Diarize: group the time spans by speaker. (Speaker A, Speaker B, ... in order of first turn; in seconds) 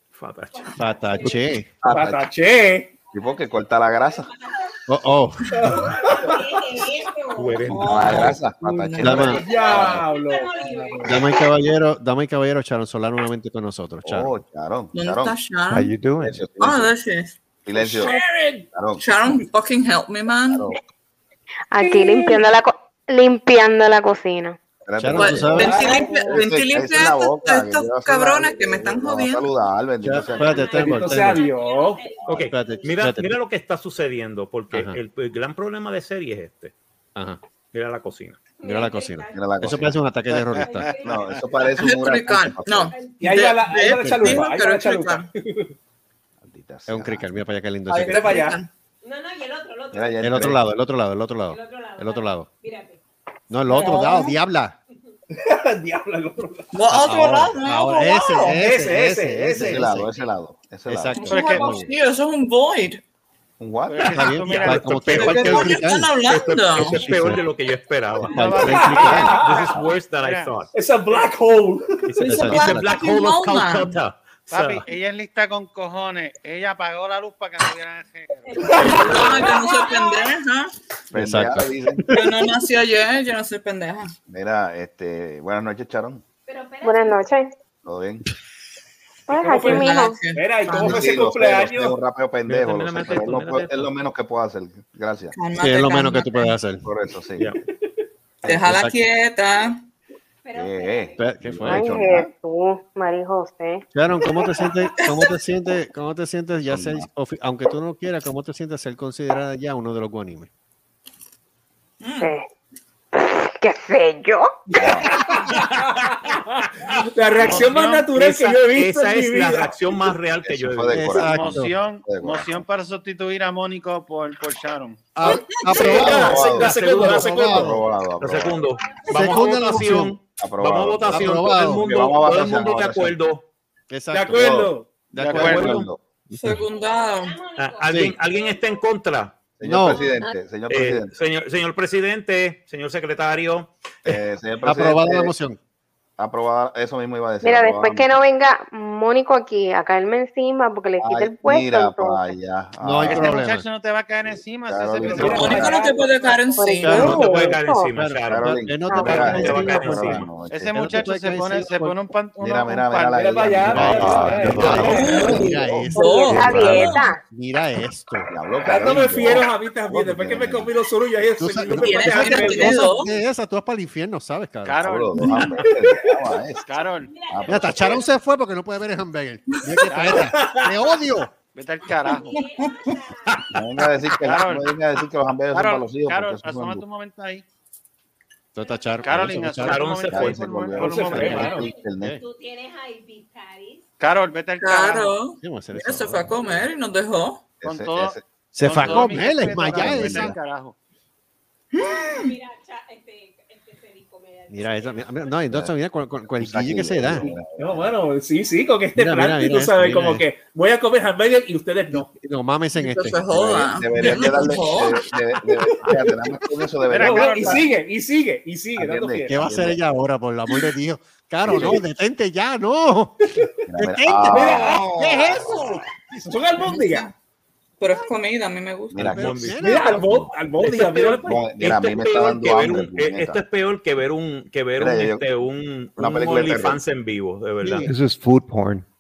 Speaker A: 0.1-1.4, 7.3-8.4, 32.3-36.7, 37.7-38.4, 64.5-65.7, 66.3-70.7, 72.1-74.8, 92.5-93.9, 117.6-121.1, 126.1-127.4, 128.2-133.4, 135.3-135.9, 137.6-139.3, 140.7-143.7, 157.2-160.3, 164.6-164.9, 189.7-190.8, 229.0-229.8, 230.6-237.9
Speaker B: 0.5-1.5, 3.2-4.7, 5.6-8.2, 9.4-11.5, 30.1-33.0, 38.6-39.6, 40.6-41.8, 42.9-43.4, 49.0-50.5, 51.5-53.0, 60.0-60.3, 61.1-61.9, 78.5-80.3, 86.5-87.3, 100.4-101.4, 127.9-129.5, 136.5-138.8, 139.9-140.2, 155.6-156.8, 177.0-178.1, 182.1-183.7, 188.6-189.6, 191.2-193.8, 201.9-205.4
Speaker C: 0.8-1.7, 4.9-5.9, 9.0-9.4, 11.0-14.4, 25.0-25.8, 30.0-31.4, 32.3-33.4, 34.7-35.0, 37.1-37.4, 38.6-40.9, 44.0-44.5, 46.9-48.4, 50.2-52.5, 53.5-54.8, 56.9-60.1, 60.9-61.9, 64.1-66.2, 66.8-67.4, 68.2-69.4, 72.2-73.0, 81.1-82.0, 95.6-96.9, 98.5-99.0, 101.2-102.0, 103.9-110.5, 120.9-121.7, 125.2-127.8, 129.1-130.2, 131.1-131.9, 133.9-134.5, 135.1-136.6, 137.9-138.2, 139.6-140.0, 144.1-145.6, 152.8-153.7, 155.2-155.6, 156.8-162.0, 163.7-168.3, 171.4-174.8, 177.5-181.3, 188.5-189.9, 191.1-192.2, 195.4-196.3, 198.5-200.3, 204.5-207.3, 209.0-210.3, 211.9-213.2, 219.3-223.2, 223.8-224.8, 229.0-230.4, 237.6-237.9
Speaker D: 1.8-2.3, 3.1-4.3, 7.8-10.0, 14.1-15.4, 16.2-16.9, 17.6-18.2, 18.7-19.0, 20.5-20.8, 24.8-31.0, 39.3-40.0, 41.0-43.0, 46.4-47.3, 49.9-50.6, 59.6-61.3, 63.6-64.8, 69.7-70.0, 81.1-82.2, 84.3-86.2, 87.8-88.3, 90.8-95.4, 96.8-97.5, 100.5-102.3, 106.7-107.1, 114.8-115.1, 120.5-122.6, 125.8-128.6, 130.4-133.2, 134.3-136.0, 139.6-141.2, 144.0-145.3, 146.2-148.1, 151.0-153.4, 154.3-155.8, 158.3-161.2, 162.4-165.9, 168.3-170.7, 174.8-176.7, 177.2-177.8, 183.5-186.9, 190.1-192.2, 197.6-198.2, 198.8-200.4, 206.4-207.9, 213.3-217.7, 218.8-219.8, 221.4-221.8, 223.7-226.1, 228.9-229.7, 231.2-233.4, 234.8-235.3, 236.0-236.8
Speaker E: 1.9-2.9, 5.6-6.4, 9.2-11.3, 17.8-18.7, 21.8-22.4, 25.6-26.4, 30.7-32.0, 43.2-45.7, 48.0-48.6, 55.3-56.7, 58.5-59.8, 68.7-69.7, 70.7-72.1, 89.3-92.0, 114.7-119.8, 125.8-127.6, 134.1-134.9, 155.1-155.8, 157.0-157.5, 163.1-165.5, 168.6-172.8, 180.1-180.7, 190.8-191.7, 207.3-212.1, 215.8-216.1, 216.9-219.5, 224.3-227.1, 229.6-231.5
Speaker F: 7.7-9.4, 14.9-15.9, 16.6-17.4, 19.0-20.7, 25.1-29.5, 41.8-45.3, 47.9-48.7, 53.7-54.4, 56.7-58.6, 61.2-63.0, 65.2-67.1, 72.2-74.0, 78.8-80.7, 82.1-84.2, 89.6-91.0, 95.3-96.5, 98.4-99.8, 105.0-105.3, 112.0-112.3, 125.2-125.8, 136.4-137.4, 155.2-157.3, 164.9-167.0, 171.7-173.1, 175.2-175.6, 182.3-182.7, 194.6-197.4, 201.7-202.3, 212.8-215.0, 227.8-229.2
Speaker G: 15.7-16.5, 163.7-165.1, 166.3-166.7, 237.9-238.9
Speaker H: 21.7-24.6, 86.8-87.5, 89.3-90.2, 101.7-103.8, 112.2-112.5, 113.1-114.6, 147.4-152.3, 156.6-157.9, 158.9-159.4, 166.0-167.2
Speaker I: 40.4-41.5, 63.9-65.7, 68.3-71.3, 74.5-78.7, 117.5-118.1, 121.2-125.1, 135.2-135.8, 153.1-155.6, 160.5-163.2, 174.7-175.1, 176.7-177.2, 179.9-180.3, 181.6-182.3, 184.2-184.7, 185.5-187.4, 189.0-191.6, 194.0-195.2, 197.6-200.8, 216.9-217.7